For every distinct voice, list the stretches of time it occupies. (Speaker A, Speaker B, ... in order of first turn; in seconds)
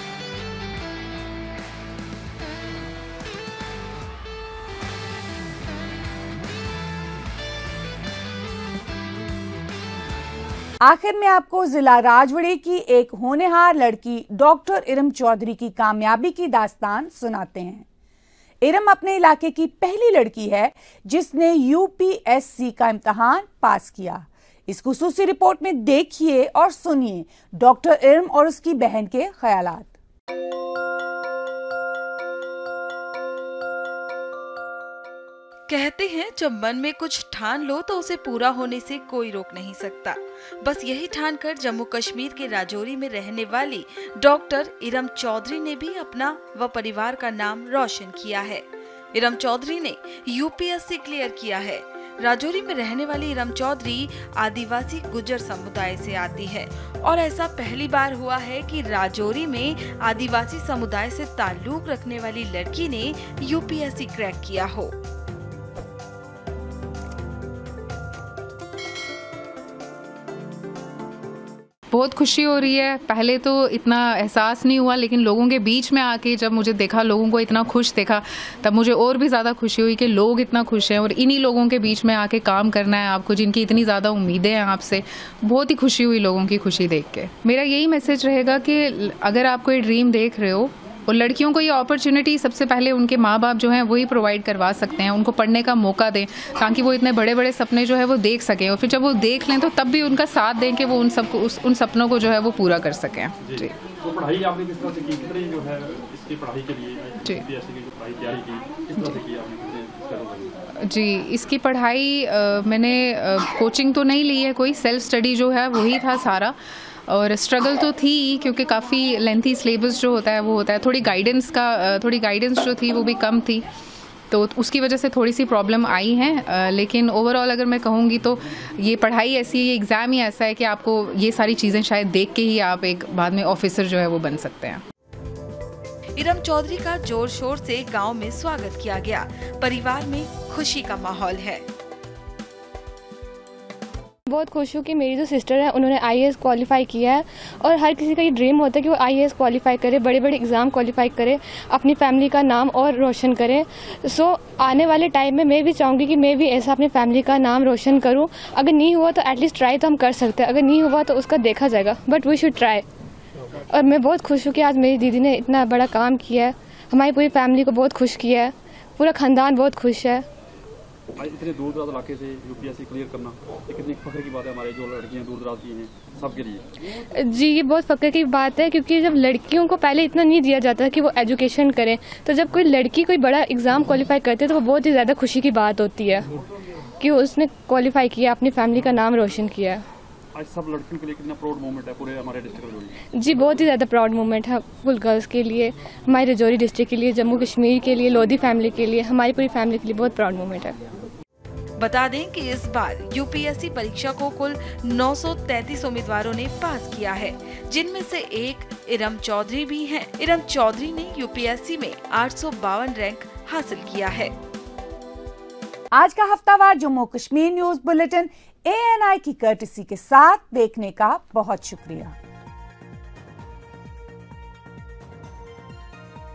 Speaker A: 10.8-17.9, 18.6-29.9, 215.9-222.2
Speaker B: 35.7-64.9, 136.2-141.7, 201.8-214.3
Speaker C: 71.9-103.7, 110.9-116.5, 117.1-123.6, 124.3-134.8
Speaker D: 103.4-110.5, 171.2-176.7, 190.3-192.9
Speaker E: 144.3-162.8, 163.7-170.2, 177.1-186.3, 187.0-189.8, 193.1-200.8